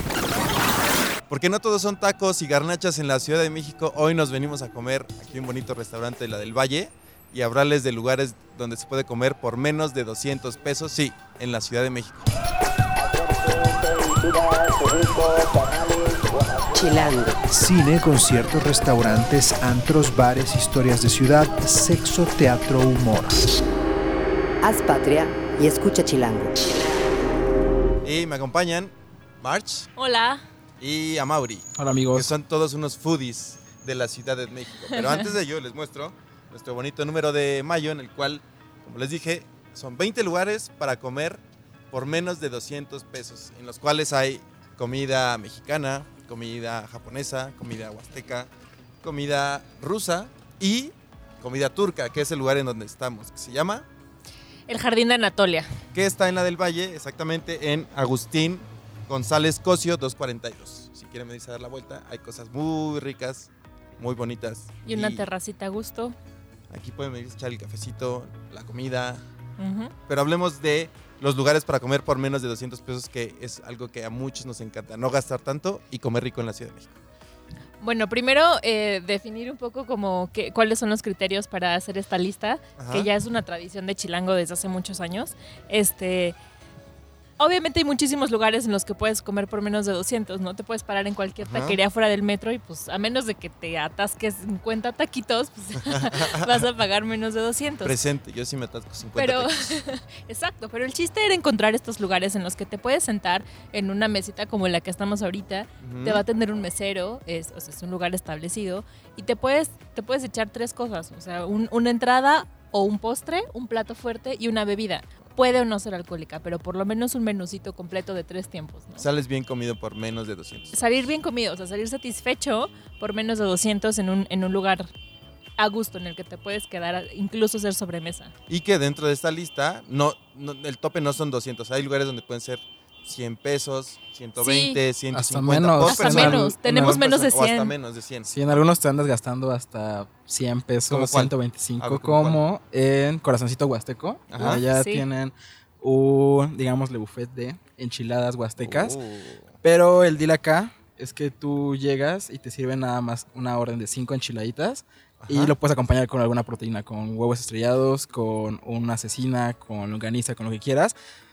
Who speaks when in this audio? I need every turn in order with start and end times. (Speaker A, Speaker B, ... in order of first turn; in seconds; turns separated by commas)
Speaker A: 1.3-12.3, Speaker B: 14.2-15.2, Speaker B: 16.7-17.4, Speaker C: 17.5-23.4, Speaker B: 24.6-26.6, Speaker A: 28.0-29.9, Speaker D: 29.9-30.4, Speaker A: 30.8-48.5, Speaker E: 31.8-32.3, Speaker D: 34.9-35.3, Speaker A: 49.0-53.9, Speaker D: 54.7-55.7, Speaker A: 55.9-65.2, Speaker D: 64.8-66.1, Speaker A: 66.7-69.2, Speaker D: 69.6-69.9, Speaker A: 70.1-77.0, Speaker D: 77.8-86.3, Speaker A: 82.8-83.1, Speaker D: 87.4-98.0, Speaker A: 91.4-91.8, Speaker A: 96.0-96.5, Speaker A: 97.8-99.8, Speaker D: 99.2-119.0, Speaker A: 105.8-106.2, Speaker A: 119.0-120.7, Speaker D: 120.7-124.9, Speaker D: 125.6-128.3, Speaker A: 128.5-138.3, Speaker D: 134.4-134.8, Speaker E: 135.1-137.0, Speaker D: 135.8-137.7, Speaker E: 138.2-149.0, Speaker A: 140.9-142.4, Speaker A: 144.3-144.6, Speaker D: 144.4-145.1, Speaker A: 148.6-149.6, Speaker E: 149.6-160.9, Speaker A: 155.2-155.6